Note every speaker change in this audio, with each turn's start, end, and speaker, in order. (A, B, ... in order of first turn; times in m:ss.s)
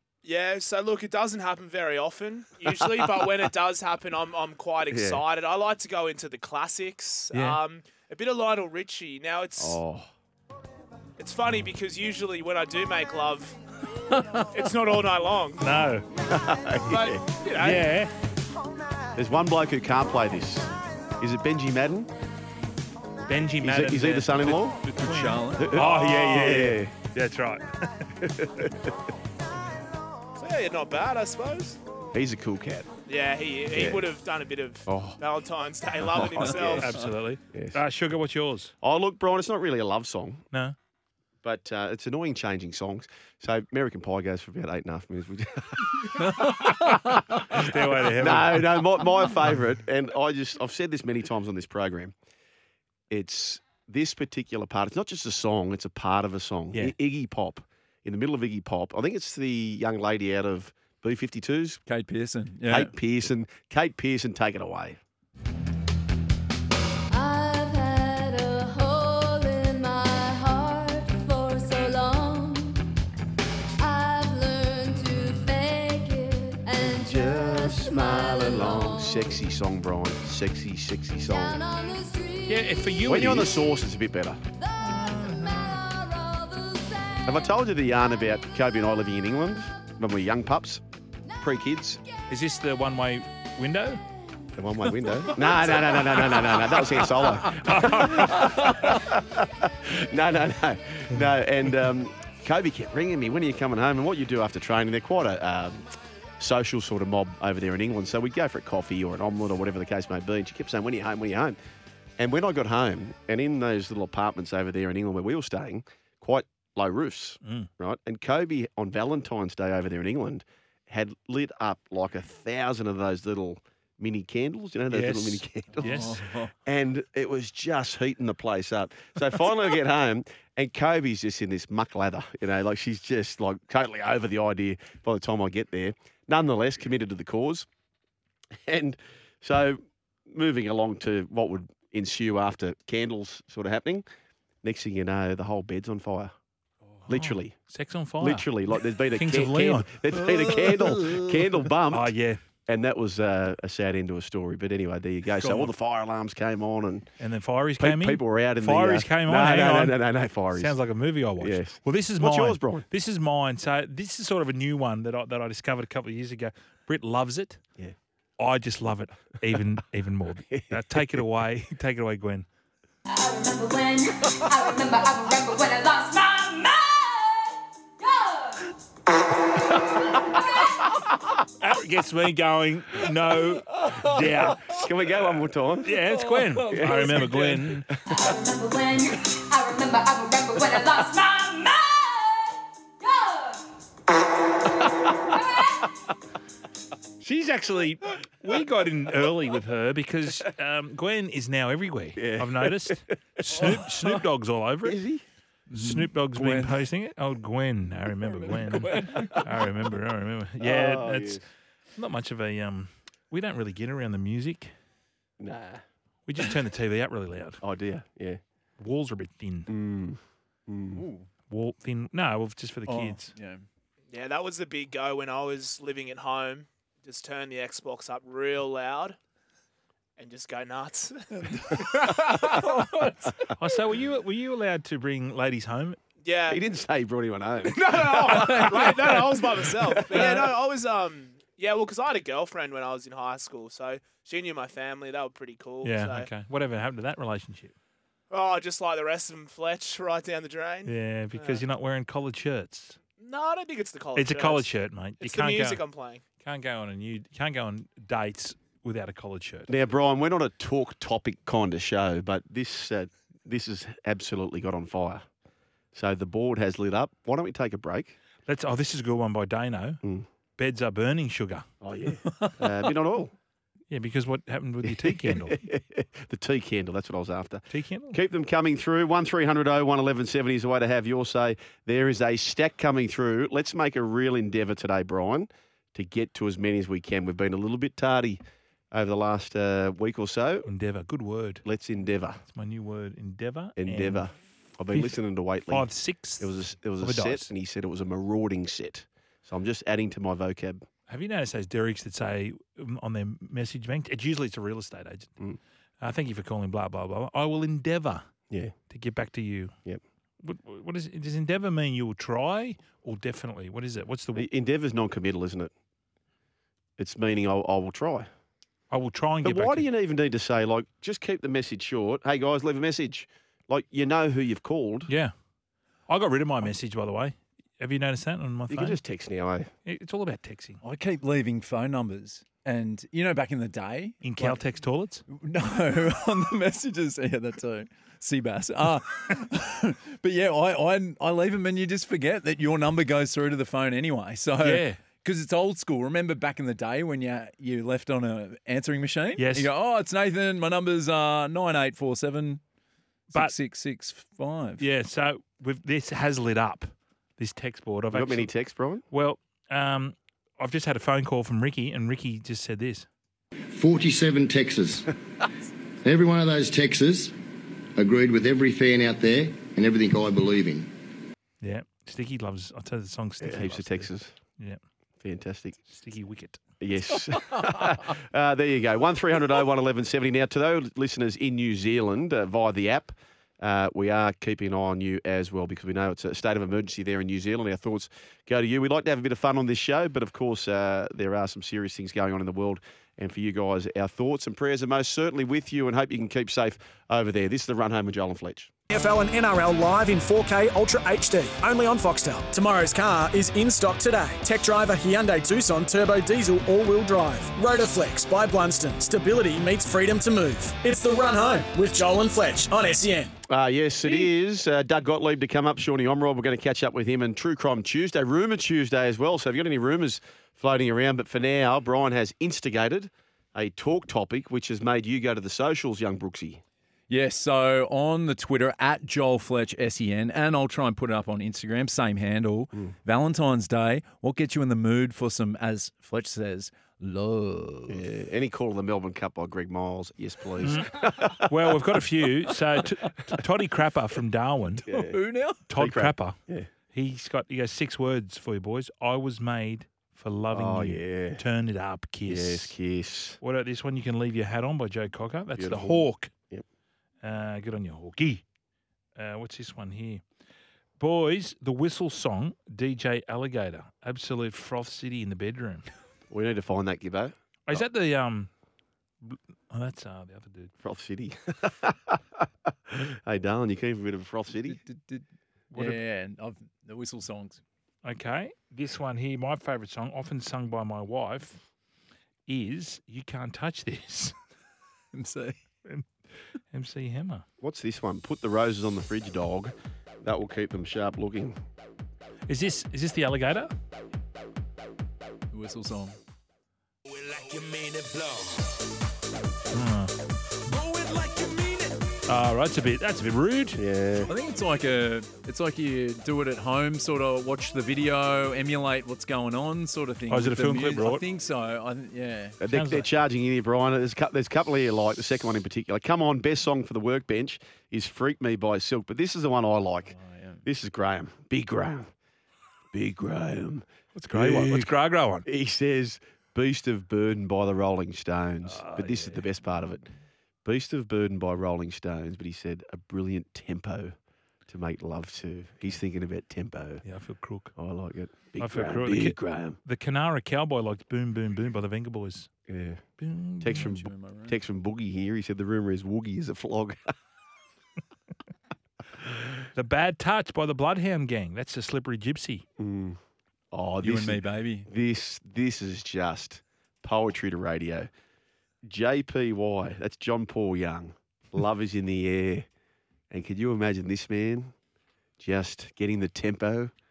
0:00.2-0:09.8 A
0:02.8-0:03.2 B
0:04.9-0:05.2 B
0:07.3-0:07.6 C
0:09.6-0:10.1 B
0:11.2-0:13.6 A
0:14.1-0:14.6 D
0:14.5-0:15.7 A
0:15.6-0:16.1 C
0:16.3-0:17.3 B
0:16.8-0:17.9 A
0:17.6-0:18.1 C
0:19.2-0:20.7 B
0:21.2-0:22.1 B
0:23.3-0:28.1 C
0:23.6-0:24.8 B
0:24.9-0:25.8 D
0:25.6-0:27.0 B
0:25.9-0:26.5 A
0:28.2-0:28.9 B
0:30.4-0:31.8 A
0:32.1-0:32.9 B
0:33.1-0:36.9 A
0:33.7-0:34.1 B
0:34.9-0:35.2 B
0:36.0-0:37.0 B
0:36.4-0:38.7 C
0:37.5-0:37.8 B
0:38.8-0:40.4 B
0:41.4-0:52.1 B
0:46.2-0:47.2 D
0:46.4-0:49.6 C
0:53.1-1:01.8 B
1:01.9-1:02.9 D
1:02.7-1:05.0 B
1:07.1-1:12.9 E
1:13.8-1:19.4 E
1:14.9-1:15.6 C
1:16.8-1:21.6 B
1:21.3-1:23.6 E
1:22.5-1:23.6 C
1:23.1-1:24.4 B
1:24.6-1:27.5 E
1:24.8-1:25.8 C
1:27.3-1:30.8 B
1:31.4-1:32.0 B
1:32.3-1:34.0 C
1:34.6-1:45.9 B
1:35.8-1:36.7 C
1:37.5-1:39.0 C
1:46.4-1:51.6 B
1:52.2-2:06.1 B
1:57.4-1:57.7 C
2:04.9-2:06.2 C
2:05.8-2:06.5 D
2:06.6-2:17.7 B
2:18.6-2:24.0 B
2:24.6-2:26.3 B
2:27.1-2:27.5 B
2:27.1-2:28.5 C
2:28.2-2:32.1 B
2:29.1-2:30.0 C
2:30.5-2:31.2 D
2:31.9-2:32.4 C
2:32.7-2:37.1 B
2:35.4-2:35.7 C
2:37.2-2:40.0 C
2:37.8-2:40.8 B
2:40.5-2:47.6 C
2:41.4-2:42.9 B
2:48.4-2:52.5 C
2:50.5-2:51.0 B
2:53.1-2:58.7 E
2:59.7-3:00.8 E
3:01.6-3:04.8 C
3:04.6-3:06.0 B
3:05.8-3:07.9 C
3:06.1-3:07.7 D
3:06.7-3:07.5 B
3:08.1-3:13.7 E
3:14.6-3:15.9 E
3:17.2-3:25.0 C
3:22.2-3:24.2 B
3:24.8-3:25.2 B
3:25.7-3:26.8 D
3:25.7-3:31.4 C
3:28.2-3:29.7 D
3:30.6-3:31.4 B
3:32.0-3:34.7 C
3:35.4-3:35.8 B
3:36.3-3:37.6 C
3:37.6-3:38.4 B
3:38.8-3:39.7 C
3:39.7-3:41.0 B
3:40.9-3:41.3 D
3:41.5-3:43.3 C
3:42.9-3:43.6 D
3:44.1-3:49.2 A
3:50.2-3:51.9 A
3:51.3-3:53.5 D
3:53.6-3:56.0 C
3:56.2-3:56.6 A
3:56.5-4:00.5 B
3:57.8-4:06.3 A
4:05.8-4:07.7 C
4:08.3-4:11.6 A
4:10.9-4:13.0 C
4:13.2-4:16.2 A
4:14.2-4:15.8 C
4:16.4-4:19.7 C
4:19.7-4:25.2 B
4:25.9-4:28.2 B
4:28.5-4:30.0 C
4:30.6-4:31.7 C
4:31.8-4:33.3 B
4:33.9-4:35.6 C
4:34.8-4:48.4 B
4:37.7-4:38.2 C
4:48.9-4:50.7 B
4:50.7-4:51.6 C
4:51.7-4:52.4 B
4:52.4-4:54.3 C
4:53.8-4:55.9 B
4:54.9-4:57.5 C
4:56.4-5:00.8 B
5:01.1-5:05.3 C
5:06.0-5:08.2 C
5:08.9-5:09.7 C
5:10.4-5:14.5 C
5:14.4-5:15.7 B
5:17.0-5:18.3 B
5:18.9-5:19.9 C
5:19.4-5:25.1 B
5:25.1-5:25.3 C
5:26.1-5:29.0 C
5:28.7-5:29.7 B
5:29.8-5:30.8 C
5:30.8-5:34.6 D
5:34.2-5:35.2 C
5:35.3-5:52.6 D
5:44.6-5:45.0 C
5:49.4-5:49.7 C
5:53.3-5:54.8 D
5:54.8-5:58.5 C
5:58.1-5:59.0 B
5:59.1-6:03.1 C
6:03.7-6:05.1 F
6:06.0-6:07.4 F
6:08.0-6:10.9 F
6:11.6-6:14.8 C
6:13.4-6:14.3 B
6:15.2-6:15.8 B
6:15.9-6:16.6 C
6:16.8-6:38.7 B
6:38.9-6:53.3 G
6:53.5-7:06.6 B
7:07.1-7:18.1 D
7:17.9-7:21.8 B
7:20.6-7:24.8 C
7:24.8-7:25.6 D
7:24.9-7:25.2 B
7:25.7-7:26.4 C
7:25.8-7:26.7 B
7:26.9-7:32.7 C
7:30.5-7:31.4 B
7:32.3-7:33.4 B
7:33.4-7:36.3 C
7:35.6-7:36.6 B
7:37.2-7:38.4 C
7:39.2-7:40.2 C
7:41.0-7:45.9 C
7:46.3-7:47.8 B
7:47.7-7:48.5 C
7:49.2-7:50.7 C
7:50.8-7:54.8 B
7:54.7-7:57.6 D
7:58.0-8:01.6 C
8:02.5-8:04.3 C
8:05.1-8:05.6 D
8:06.7-8:07.4 C
8:07.6-8:11.6 B
8:12.5-8:13.7 C
8:15.5-8:16.2 D
8:17.1-8:18.7 C
8:19.7-8:20.1 C
8:20.7-8:21.5 C
8:22.3-8:23.8 C
8:23.8-8:24.3 B
8:24.3-8:32.6 D
8:30.3-8:31.2 C
8:32.6-8:40.1 B
8:32.7-8:33.1 C
8:40.1-8:40.6 D
8:40.6-8:42.1 B
8:42.9-8:44.9 B
8:44.2-8:45.5 C
8:45.5-8:50.1 B
8:48.6-8:49.4 C
8:50.6-8:54.1 B
8:54.7-8:57.0 B
8:57.0-8:57.7 C
8:57.8-8:59.8 B
8:58.6-9:02.5 C
9:02.7-9:03.0 B
9:03.2-9:03.9 C
9:03.6-9:07.1 B
9:03.8-9:04.6 D
9:09.8-9:12.6 C
9:12.8-9:13.2 B
9:13.7-9:18.1 B
9:14.0-9:14.9 D
9:18.8-9:22.7 B
9:23.3-9:24.7 B
9:25.4-9:26.9 B